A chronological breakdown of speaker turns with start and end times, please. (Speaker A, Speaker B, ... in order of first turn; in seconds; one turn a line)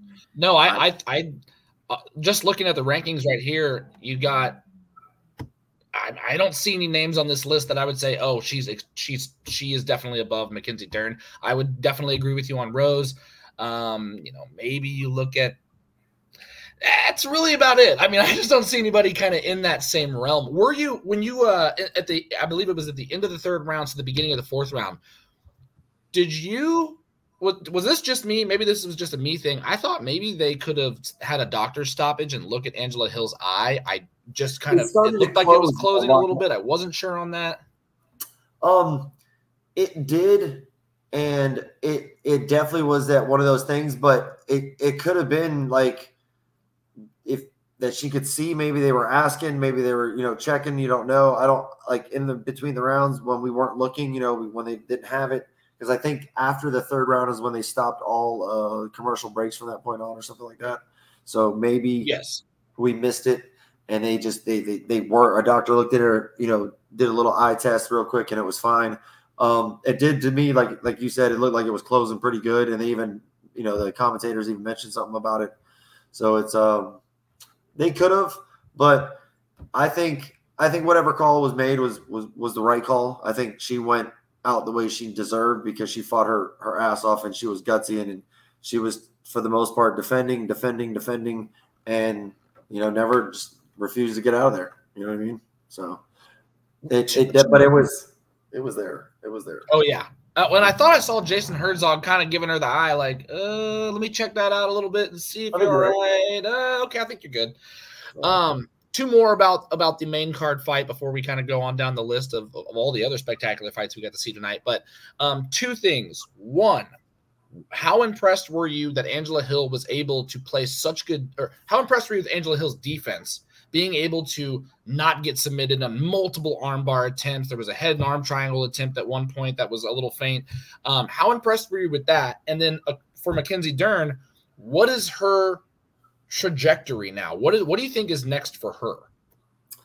Speaker A: 0.3-1.3
Speaker A: 1.9-4.6
Speaker A: 5.9-15.6
Speaker A: 16.8-25.0
Speaker A: 26.1-37.6
Speaker B: 34.7-36.4
Speaker B: 38.6-39.1
Speaker B: 39.8-46.1
Speaker B: 47.2-62.1
Speaker A: 62.0-62.4
Speaker B: 62.8-75.5
Speaker B: 76.1-77.0
Speaker B: 77.8-79.2
Speaker B: 79.7-96.0
Speaker B: 96.9-99.7
Speaker A: 97.1-97.8
Speaker A: 99.7-107.5
Speaker B: 105.5-105.9
Speaker B: 108.2-108.4
Speaker A: 108.2-116.9
Speaker A: 117.7-135.6
Speaker A: 136.3-139.1